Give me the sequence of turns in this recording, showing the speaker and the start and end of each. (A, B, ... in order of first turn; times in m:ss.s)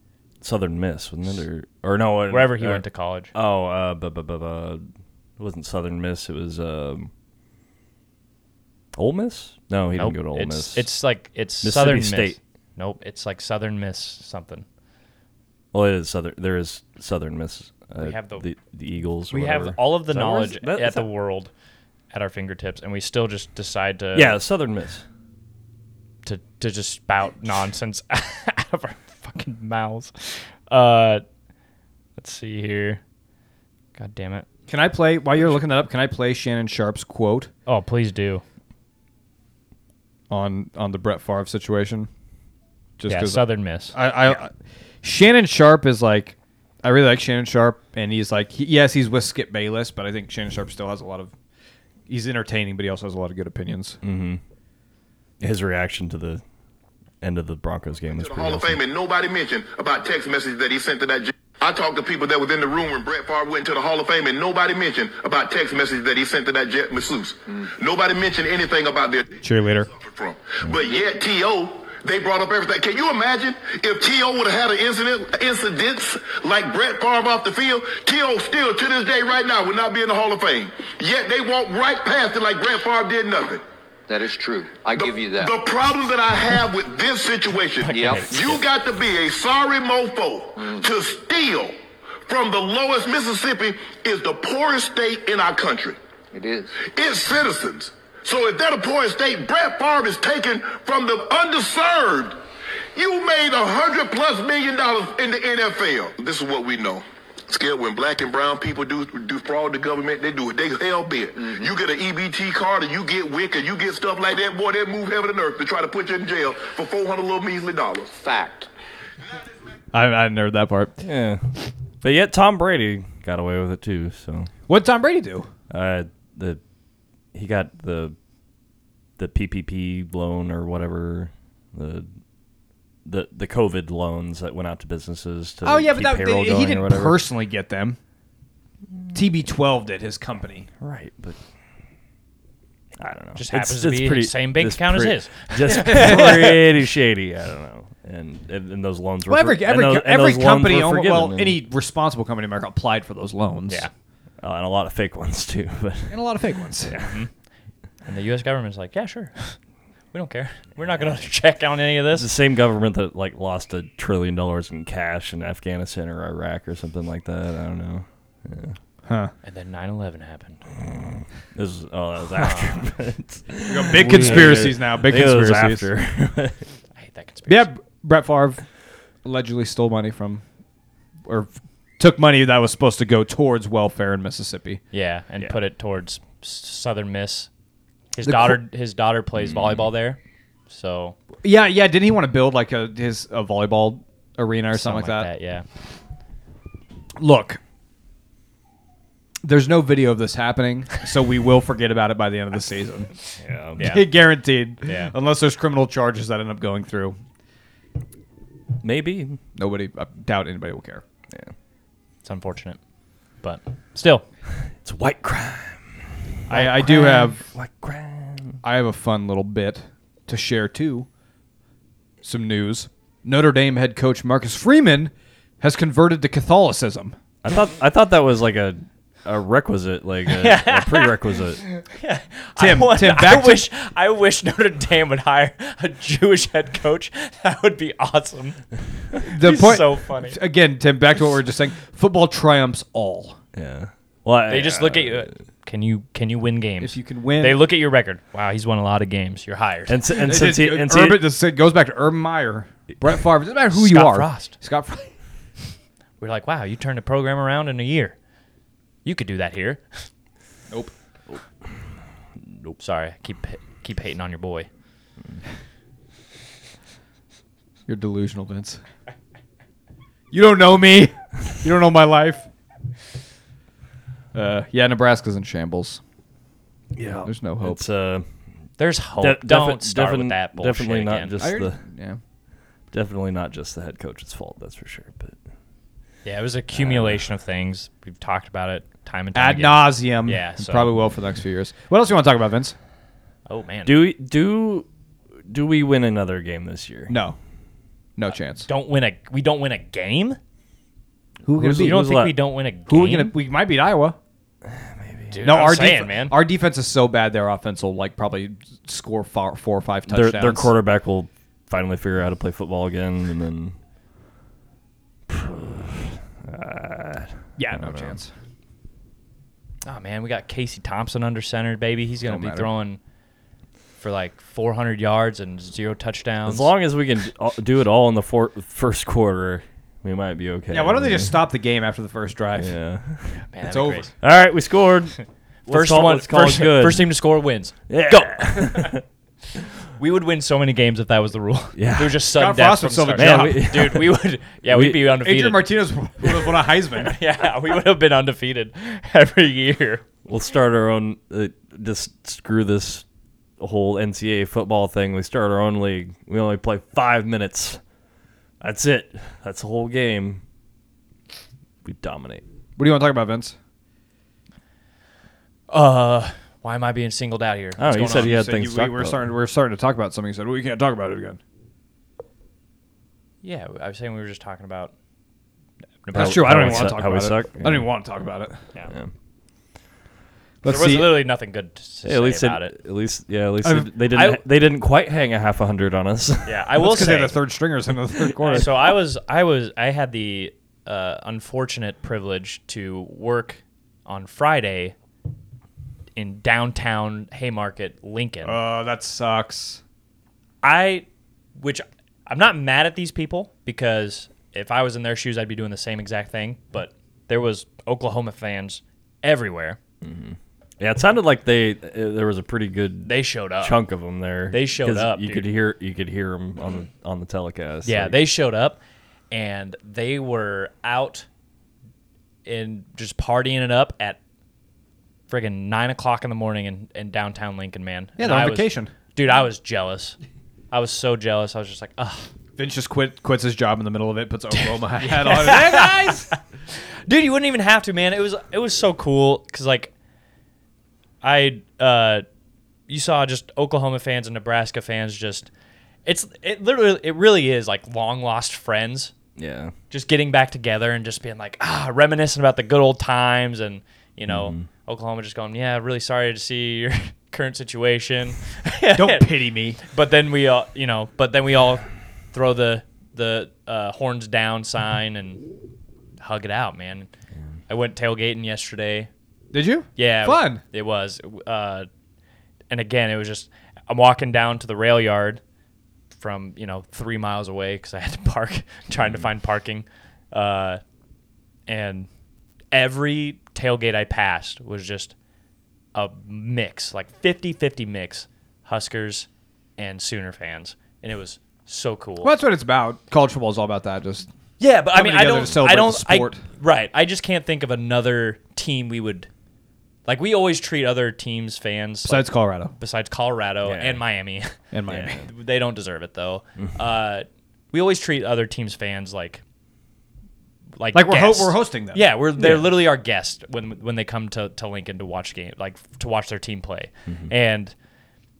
0:00.4-0:04.8 A
0:02.3-0:03.3 B
0:05.4-0:07.1 A
0:09.0-0:10.9 A
0:10.0-0:14.7 B
0:11.6-0:12.4 A
0:15.7-0:21.1 A
0:18.0-0:18.4 B
0:19.3-0:21.5 B
0:22.1-0:24.4 B
0:24.1-0:25.0 A
0:26.2-0:31.2 B
0:32.2-0:33.0 B
0:34.0-0:34.5 B
0:34.7-0:37.5 C
0:37.7-0:38.4 B
0:40.3-0:42.1 C
0:43.0-0:44.5 C
0:43.1-0:44.0 B
0:45.0-0:51.3 C
0:52.1-0:54.0 C
0:54.0-0:54.4 A
0:55.4-0:56.4 A
0:57.2-0:58.8 A
0:58.1-1:09.3 D
1:09.4-1:09.9 C
1:10.0-1:23.6 D
1:24.1-1:25.5 E
1:25.0-1:31.8 D
1:27.8-1:28.6 B
1:27.9-1:28.6 E
1:32.3-1:36.0 D
1:36.3-1:36.8 E
1:36.8-1:42.4 D
1:43.0-1:58.2 D
1:58.2-1:58.7 E
1:59.9-2:00.9 C
2:01.0-2:04.5 A
2:04.7-2:05.5 C
2:05.7-2:06.6 A
2:07.3-2:08.2 A
2:09.2-2:12.1 A
2:13.0-2:17.2 A
2:15.6-2:18.0 C
2:19.1-2:20.7 C
2:20.8-2:21.4 A
2:23.0-2:31.6 A
2:23.4-2:26.6 B
2:25.9-2:26.4 C
2:29.3-2:33.9 C
2:34.4-2:36.2 A
2:36.1-2:37.0 C
2:36.9-2:37.3 B
2:38.0-2:39.6 B
2:40.1-2:42.3 B
2:42.1-2:48.8 A
2:49.1-2:49.3 C
2:49.4-2:50.6 B
2:50.9-2:56.6 A
2:52.4-2:52.8 B
2:53.7-2:55.9 C
2:57.0-2:57.7 B
2:57.5-2:58.6 C
2:59.2-3:00.4 C
3:01.3-3:04.8 C
3:04.9-3:07.5 B
3:08.1-3:11.2 B
3:08.2-3:08.6 C
3:09.4-3:09.8 A
3:11.4-3:15.3 C
3:14.7-3:15.6 B
3:17.2-3:17.6 C
3:19.4-3:23.2 C
3:23.4-3:23.9 A
3:23.8-3:24.0 B
3:23.8-3:27.2 C
3:24.8-3:25.1 B
3:28.8-3:29.4 A
3:29.6-3:31.0 C
3:32.2-3:32.8 B
3:33.4-3:34.2 B
3:34.8-3:38.6 A
3:36.5-3:37.5 C
3:38.6-3:41.1 C
3:42.2-3:47.2 C
3:47.4-3:51.6 A
3:50.3-3:58.6 B
3:52.6-3:53.7 C
3:59.2-4:00.4 B
3:59.2-4:03.4 C
4:03.5-4:05.3 A
4:04.5-4:10.0 B
4:06.8-4:07.6 C
4:09.9-4:11.2 A
4:10.2-4:15.1 C
4:13.7-4:14.6 B
4:16.2-4:18.2 B
4:19.0-4:20.1 B
4:22.4-4:22.8 A
4:22.8-4:24.7 B
4:27.9-4:28.8 C
4:30.3-4:32.5 C
4:34.3-4:36.0 C
4:36.9-4:38.3 A
4:37.2-4:37.9 C
4:38.8-4:41.4 B
4:39.2-4:41.8 A
4:41.4-4:42.2 C
4:42.9-4:45.4 A
4:46.2-4:50.9 B
4:46.7-4:47.2 A
4:49.4-4:52.8 C
4:53.5-4:54.0 B
4:53.9-4:54.9 A
4:55.5-4:57.2 A
4:57.1-4:57.4 C
4:58.2-4:58.7 C
4:58.6-5:00.4 B
5:01.4-5:02.2 C
5:01.6-5:02.4 A
5:01.8-5:03.3 B
5:02.9-5:04.2 C
5:04.6-5:05.4 A
5:05.3-5:06.4 B
5:05.4-5:10.7 C
5:10.1-5:13.8 A
5:15.3-5:18.2 A
5:17.6-5:18.3 C
5:19.8-5:23.0 B
5:22.2-5:22.7 C
5:24.0-5:26.7 B
5:26.5-5:31.4 A
5:30.7-5:32.8 C
5:32.6-5:33.4 A
5:33.5-5:34.1 B
5:33.6-5:34.1 C
5:34.2-5:37.1 A
5:35.7-5:39.0 B
5:37.9-5:39.0 A
5:40.0-5:50.0 B
5:41.8-5:42.2 A
5:42.3-5:43.8 C
5:43.2-5:44.1 A
5:44.7-5:45.1 A
5:45.2-5:47.2 C
5:50.2-5:53.0 A
5:53.6-5:57.8 A
5:58.6-6:00.4 A
6:01.8-6:02.4 A
6:02.8-6:03.6 C
6:05.7-6:08.3 B
6:07.8-6:09.3 A
6:07.9-6:11.4 C
6:13.4-6:14.9 B
6:16.0-6:17.0 B
6:16.1-6:18.6 C
6:16.1-6:17.9 A
6:20.6-6:21.3 C
6:20.6-6:22.7 B
6:22.0-6:26.6 A
6:23.6-6:23.9 C
6:24.1-6:24.4 B
6:26.4-6:27.4 B
6:26.8-6:28.7 C
6:28.5-6:35.0 B
6:36.2-6:38.6 B
6:38.4-6:39.8 C
6:40.6-6:49.8 B
6:50.0-6:58.2 A
6:53.0-6:53.8 B
6:54.5-6:55.5 B
6:57.9-6:58.8 B
6:59.3-7:01.3 B
7:02.4-7:04.2 B
7:05.3-7:10.2 B
7:08.2-7:08.9 C
7:10.7-7:12.3 B
7:12.6-7:16.3 C
7:14.6-7:16.4 B
7:17.1-7:19.9 B
7:21.2-7:22.2 B
7:22.9-7:25.5 B
7:26.1-7:29.1 B
7:29.4-7:29.7 A
7:29.9-7:45.4 B
7:34.3-7:34.7 A
7:39.0-7:39.8 C
7:46.2-7:47.1 B
7:47.7-7:49.1 B
7:49.5-7:50.6 C
7:50.0-7:51.9 B
7:52.7-7:55.4 B
7:56.2-8:00.8 B
7:59.0-7:59.3 A
8:01.7-8:02.1 B
8:02.7-8:05.1 B
8:05.9-8:12.3 B
8:12.2-8:14.3 C
8:14.6-8:19.3 B
8:14.9-8:16.4 C
8:20.1-8:29.4 B
8:22.0-8:22.7 C
8:23.6-8:24.0 A
8:24.7-8:25.2 C
8:24.9-8:25.2 A
8:30.8-8:37.7 B
8:30.9-8:32.7 C